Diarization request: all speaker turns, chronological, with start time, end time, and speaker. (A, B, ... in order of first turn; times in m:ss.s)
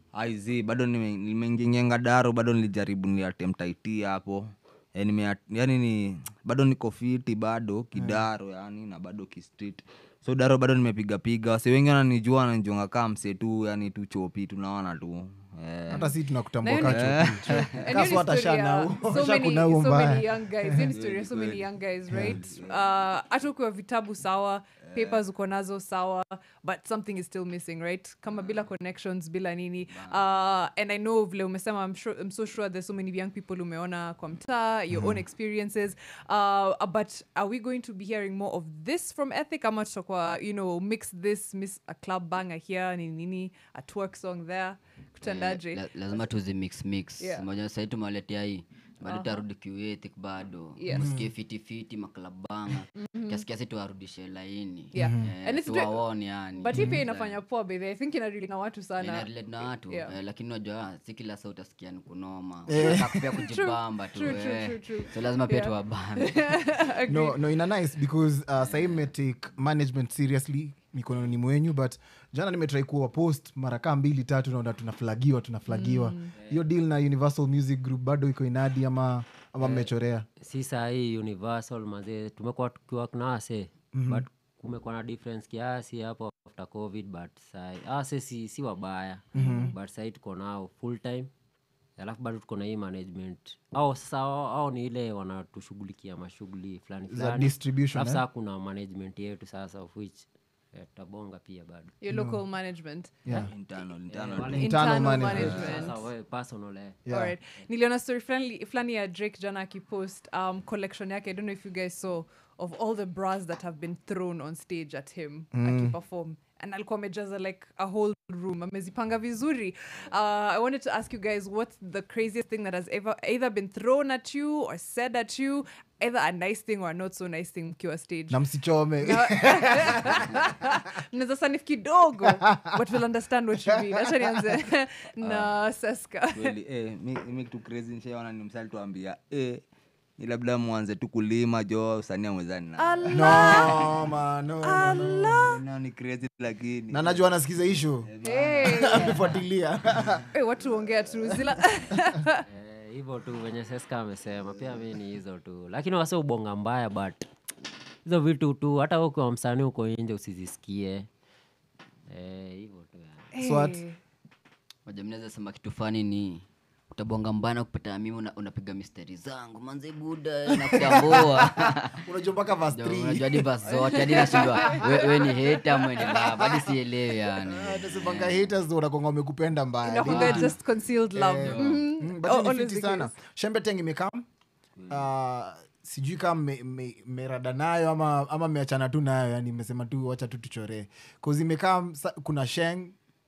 0:00.1-0:16.1 A
0:07.9-0:08.2 B
0:15.9-0:46.2 C
0:15.9-0:20.8 B
0:16.7-0:18.2 A
0:20.9-0:22.9 A
0:22.1-0:22.4 B
0:24.8-0:25.2 A
0:29.9-0:30.2 D
0:34.9-0:35.2 B
0:45.2-0:57.4 D
0:47.2-0:47.5 C
0:49.0-0:49.4 C
0:50.8-0:51.2 C
0:50.9-0:51.2 B
0:52.9-0:53.4 C
0:54.9-0:59.3 C
0:55.0-0:55.3 B
0:56.7-0:57.0 B
0:59.0-1:06.6 D
0:59.8-1:00.1 C
1:02.7-1:03.3 B
1:02.8-1:07.4 C
1:07.1-1:20.2 B
1:08.6-1:09.1 D
1:15.7-1:16.3 C
1:19.6-1:19.9 E
1:20.4-1:31.3 E
1:23.9-1:24.2 B
1:29.3-1:29.7 B
1:32.0-1:41.9 E
1:37.1-1:38.2 B
1:42.0-1:43.3 C
1:42.1-1:42.4 B
1:43.4-1:44.6 A
1:44.1-1:47.1 E
1:44.5-1:45.8 B
1:44.6-1:46.0 C
1:47.0-1:47.3 B
1:47.1-2:08.4 C
1:55.5-1:56.0 B
2:08.3-2:10.4 B
2:09.0-2:16.5 C
2:12.4-2:12.8 B
2:13.6-2:14.4 B
2:15.2-2:15.5 A
2:16.4-2:19.6 A
2:20.2-2:23.8 A
2:22.8-2:23.8 C
2:23.1-2:25.4 B
2:24.6-2:25.6 C
2:25.4-2:27.3 A
2:26.9-2:30.3 B
2:28.0-2:29.1 A
2:28.2-2:29.3 C
2:30.3-2:32.4 C
2:32.5-2:37.3 E
2:38.0-2:41.1 E
2:42.1-2:43.3 E
2:43.3-2:44.0 C
2:43.4-2:43.8 B
2:44.8-2:52.0 D
2:50.7-2:51.2 B
2:52.0-2:53.5 B
2:52.7-2:58.5 D
2:53.6-2:55.9 C
2:56.4-2:56.7 B
2:57.4-3:00.6 B
2:59.8-3:03.1 C
3:00.0-3:00.6 D
3:01.1-3:04.2 B
3:01.4-3:01.8 D
3:04.9-3:12.9 B